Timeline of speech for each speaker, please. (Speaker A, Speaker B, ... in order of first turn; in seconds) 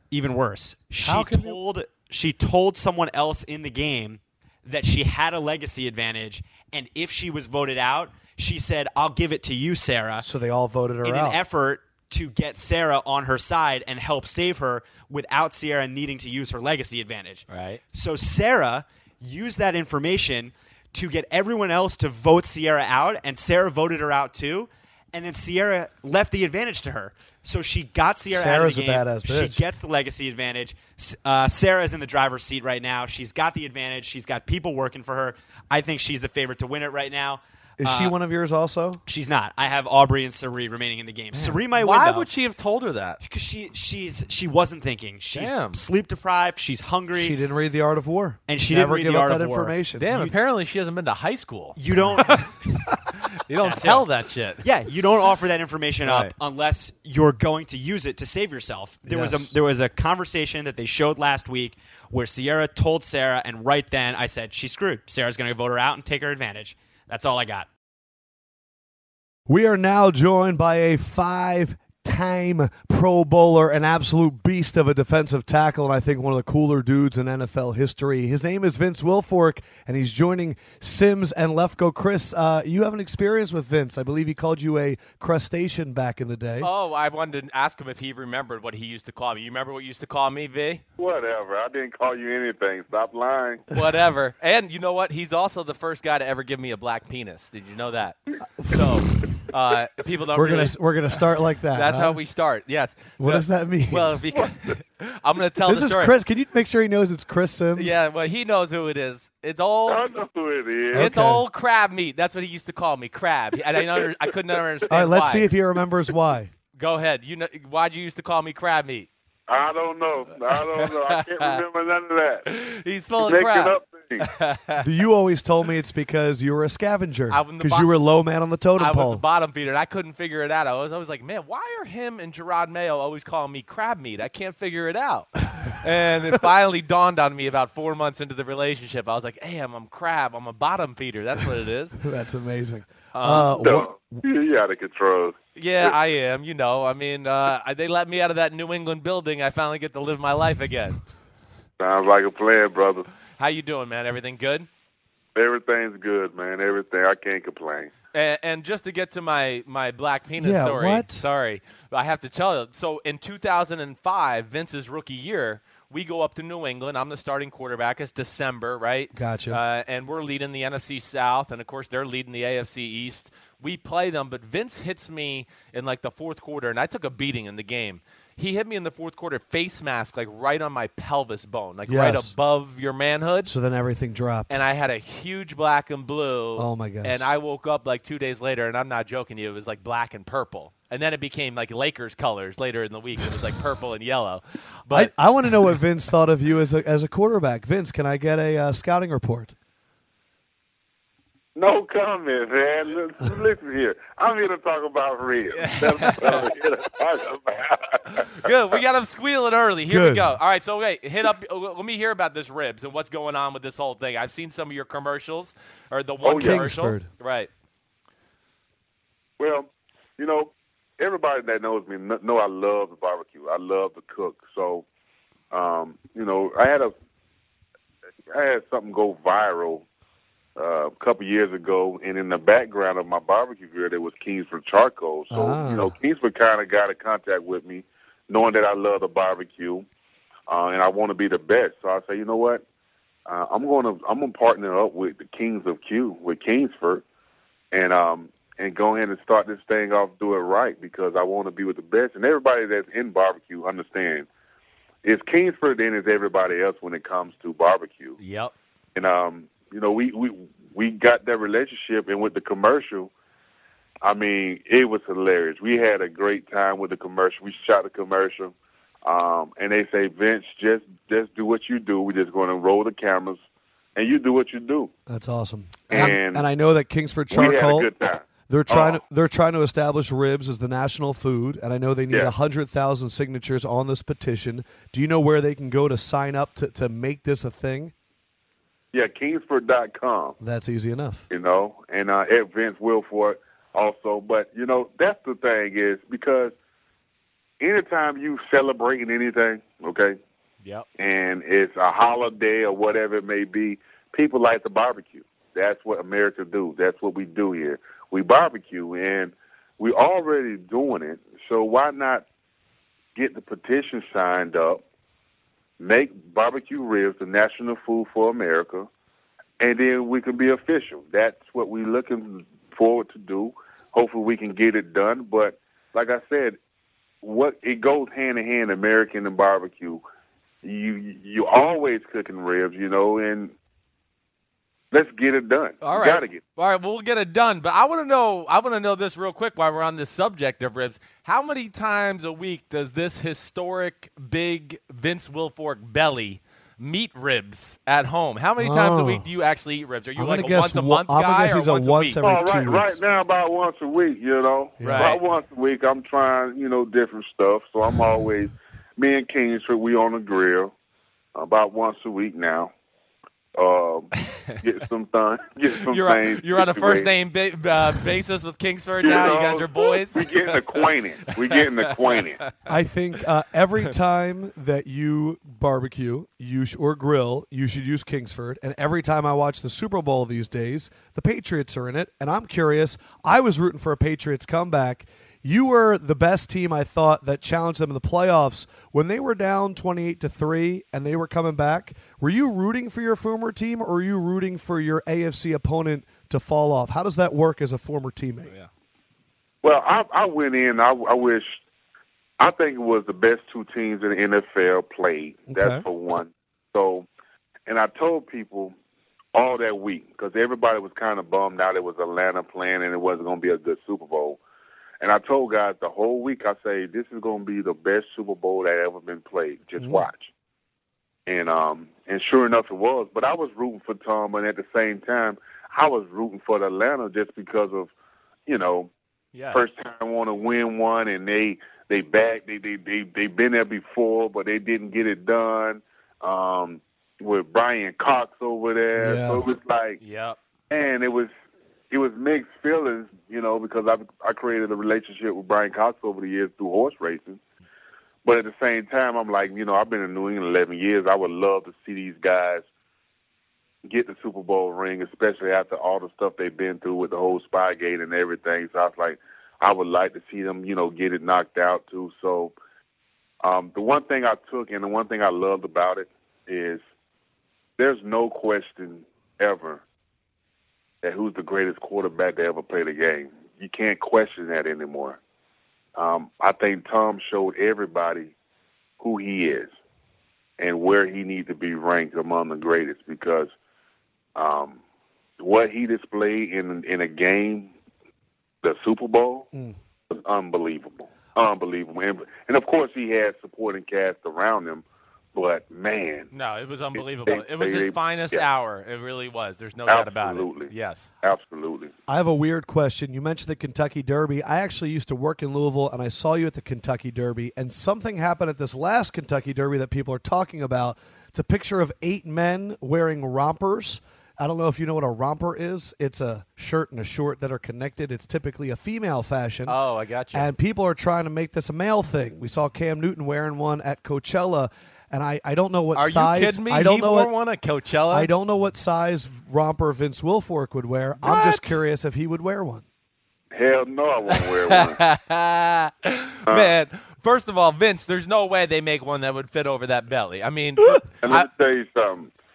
Speaker A: 0.1-10.3, 11.0-38.1, 39.0-42.3, 43.2-47.4, 48.5-49.7, 51.8-52.9, 53.5-54.1, 54.6-67.7
Speaker B: 1.0-1.6, 10.2-11.4, 28.3-29.6, 37.8-39.0, 47.1-50.3, 59.0-59.5, 69.5-86.7, 98.6-98.9, 100.3-102.2, 103.2-104.2, 105.7-108.0, 110.9-111.4, 114.9-116.5, 124.8-129.2, 142.0-144.2, 160.4-161.2, 169.1-169.6, 181.9-182.3, 183.4-184.6, 186.6-187.3, 194.9-199.5, 209.9-210.3, 216.4-217.1, 235.3-235.9, 275.1-277.9, 278.5-287.9, 290.4-291.2, 348.6-349.3, 350.1-353.0, 354.8-355.2, 372.6-398.5, 405.5-405.8, 419.8-420.0, 439.0-439.4, 502.1-519.8, 520.3-527.3, 528.1-532.8
Speaker C: 17.5-17.8, 41.7-43.2, 45.3-45.8, 50.0-52.4, 53.1-54.7, 56.0-56.3, 86.6-90.8, 93.7-100.8, 101.7-106.1, 107.8-110.1, 110.9-115.5, 116.8-119.1, 120.5-121.6, 122.5-124.8, 127.3-127.9, 128.8-142.0, 143.1-143.5, 145.6-151.0, 153.4-154.7, 158.1-183.5, 184.5-195.1, 205.5-206.5, 208.1-217.5, 258.2-258.5, 335.8-352.2, 354.8-355.2, 364.2-364.6, 365.9-372.5, 429.3-429.6, 440.0-440.4, 496.3-501.1, 519.7-520.5, 525.9-528.3, 531.2-531.8, 534.3-541.5
Speaker D: 91.0-93.7, 109.9-111.1, 119.5-122.5, 123.2-124.3, 143.4-145.9, 151.8-153.1, 155.3-157.9, 201.6-208.5, 216.2-216.7, 219.4-224.8, 225.5-226.9, 228.3-229.8, 230.6-239.8, 240.5-242.6, 243.2-247.0, 247.7-254.3, 255.0-258.2, 258.9-263.1, 264.0-268.5, 269.0-273.4, 273.9-274.9, 275.9-276.4, 277.3-279.0, 288.9-290.4, 291.3-296.5, 297.6-300.2, 301.0-312.2, 313.1-314.8, 315.8-318.9, 319.6-326.6, 327.2-330.0, 330.6-333.5, 334.9-336.4, 352.2-360.7, 361.3-362.7, 363.6-367.1, 369.0-372.4, 399.6-401.6, 402.4-407.1, 407.7-408.7, 409.3-414.4, 415.0-420.3, 421.3-427.9, 428.5-428.9, 429.5-440.0, 440.7-441.3, 441.9-447.4, 448.2-452.6, 453.8-462.5, 463.4-466.8, 467.8-469.8, 471.0-475.2, 475.9-478.3, 479.0-479.7, 480.6-483.5, 484.3-484.8, 485.4-487.7, 488.6-489.5, 490.1-496.3, 496.9-498.4, 499.9-500.7, 501.2-501.9, 533.5-535.0, 536.5-536.7, 541.2-542.3